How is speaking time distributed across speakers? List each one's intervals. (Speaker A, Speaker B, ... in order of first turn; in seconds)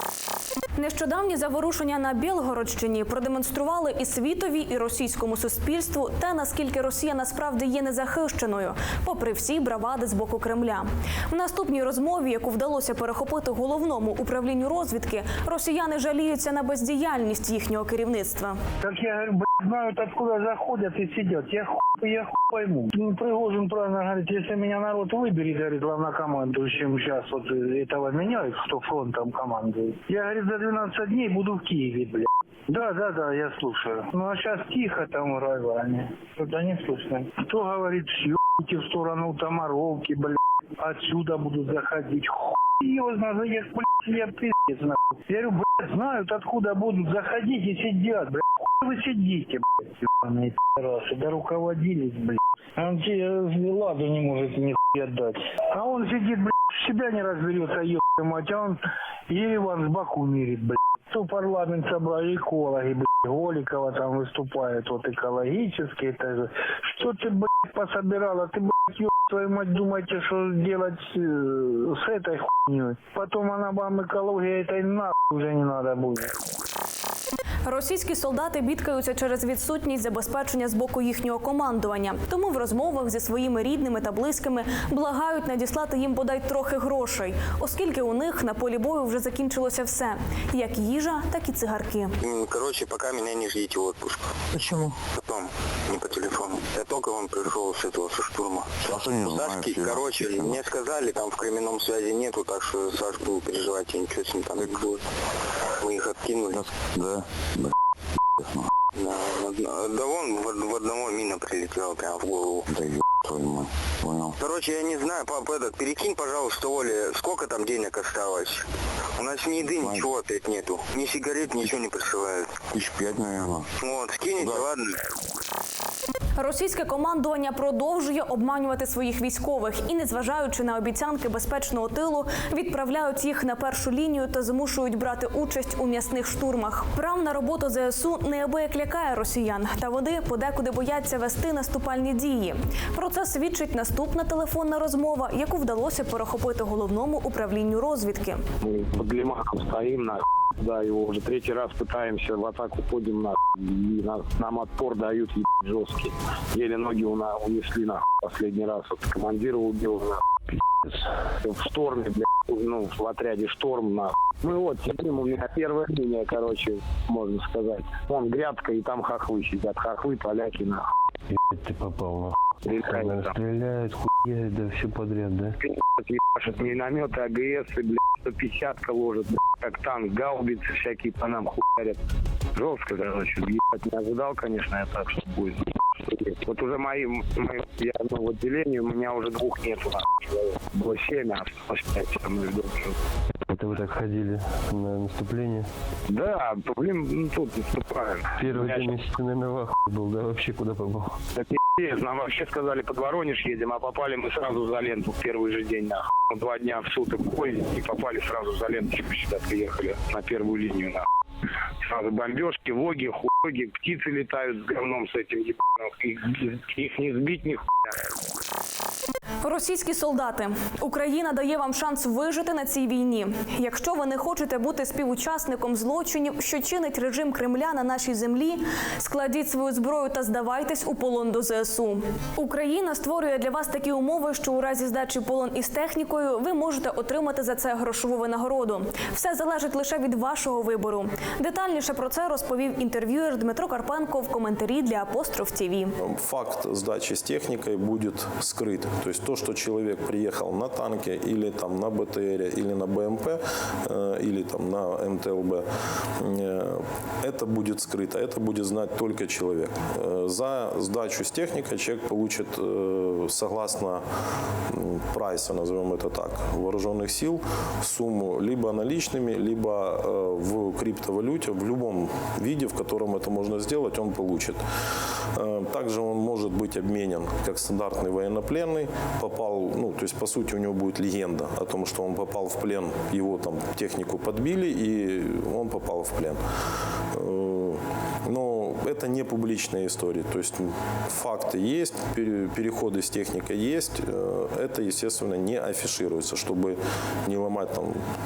Speaker A: 0.8-18.6, 77.7-92.2, 126.4-148.4, 219.4-245.9
Speaker B: 18.8-76.3
Speaker C: 92.2-94.4, 95.2-105.0, 105.8-106.6, 109.0-112.7, 114.4-122.7, 123.8-125.0
Speaker D: 94.5-95.0, 98.9-100.6, 106.5-107.7, 108.4-108.7, 112.7-114.4, 119.8-120.1, 122.7-123.7, 124.4-124.7
Speaker E: 148.6-160.2, 160.9-170.8, 172.6-173.3, 175.7-182.0, 182.6-193.0, 196.1-198.9, 201.4-211.1, 211.8-217.7
Speaker F: 171.3-175.5, 193.5-195.7, 198.4-201.2
Speaker G: 246.0-255.7, 256.2-264.0, 264.7-274.6, 275.4-286.4, 287.1-298.0